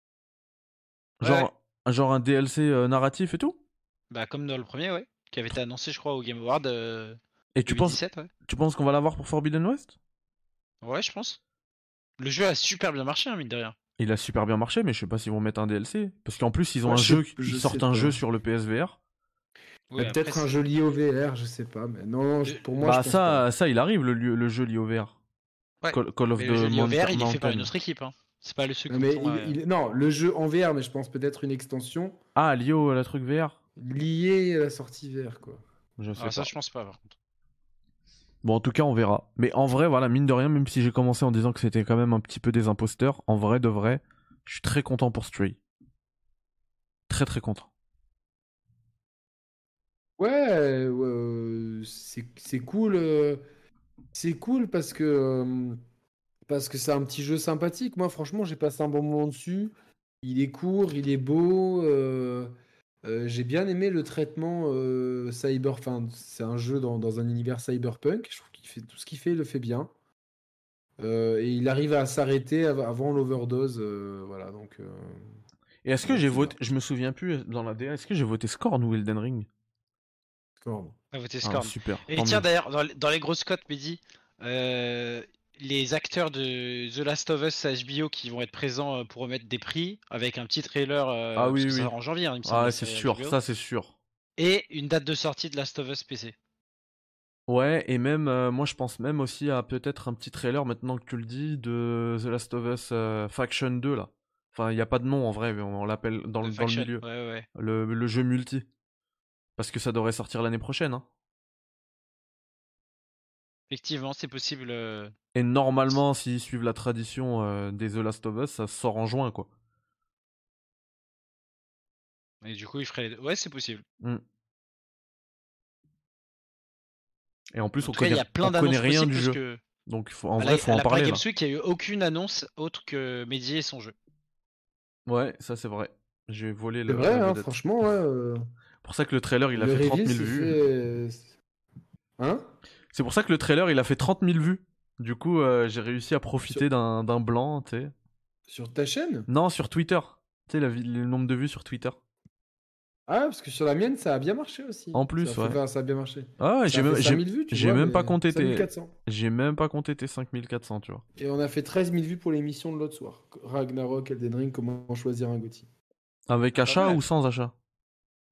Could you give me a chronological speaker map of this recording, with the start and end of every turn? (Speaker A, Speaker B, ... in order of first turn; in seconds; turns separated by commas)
Speaker A: 1.2-1.5, Speaker B: 1.2-3.6, Speaker A: 4.1-8.3, Speaker B: 7.5-9.9, Speaker A: 10.8-11.4, Speaker A: 12.2-13.8, Speaker B: 14.0-19.0, Speaker C: 16.9-18.2, Speaker A: 19.9-20.5, Speaker C: 20.0-23.4, Speaker B: 22.8-25.2, Speaker A: 25.8-29.6, Speaker B: 25.9-27.7, Speaker C: 28.9-32.2, Speaker B: 32.4-33.6, Speaker C: 33.8-35.6, Speaker B: 36.0-36.5, Speaker A: 36.2-37.1, Speaker B: 38.4-45.6, Speaker B: 47.1-47.7, Speaker C: 50.2-53.4, Speaker C: 54.1-55.8, Speaker C: 56.5-62.5, Speaker C: 63.0-69.9, Speaker C: 71.0-75.4, Speaker B: 75.8-79.5, Speaker C: 76.1-76.5, Speaker C: 80.6-81.0, Speaker A: 81.1-93.4, Speaker B: 81.4-82.5, Speaker B: 91.4-91.9, Speaker B: 92.5-93.9, Speaker A: 94.4-96.4, Speaker B: 97.5-107.0, Speaker A: 106.4-107.5, Speaker B: 107.5-108.7, Speaker B: 109.6-111.0, Speaker A: 113.7-115.1, Speaker B: 115.3-119.5, Speaker A: 122.4-123.8, Speaker B: 127.5-131.2, Speaker A: 127.8-129.6, Speaker A: 130.4-133.9, Speaker B: 135.1-137.5, Speaker C: 136.9-138.4, Speaker B: 138.8-140.6, Speaker C: 139.6-141.3, Speaker C: 142.2-142.5, Speaker B: 142.9-147.9, Speaker C: 148.5-149.3, Speaker B: 149.3-152.0, Speaker C: 153.1-158.9, Speaker B: 154.9-155.6, Speaker B: 156.4-161.0, Speaker C: 161.2-165.7, Speaker B: 166.3-167.5, Speaker A: 166.7-167.0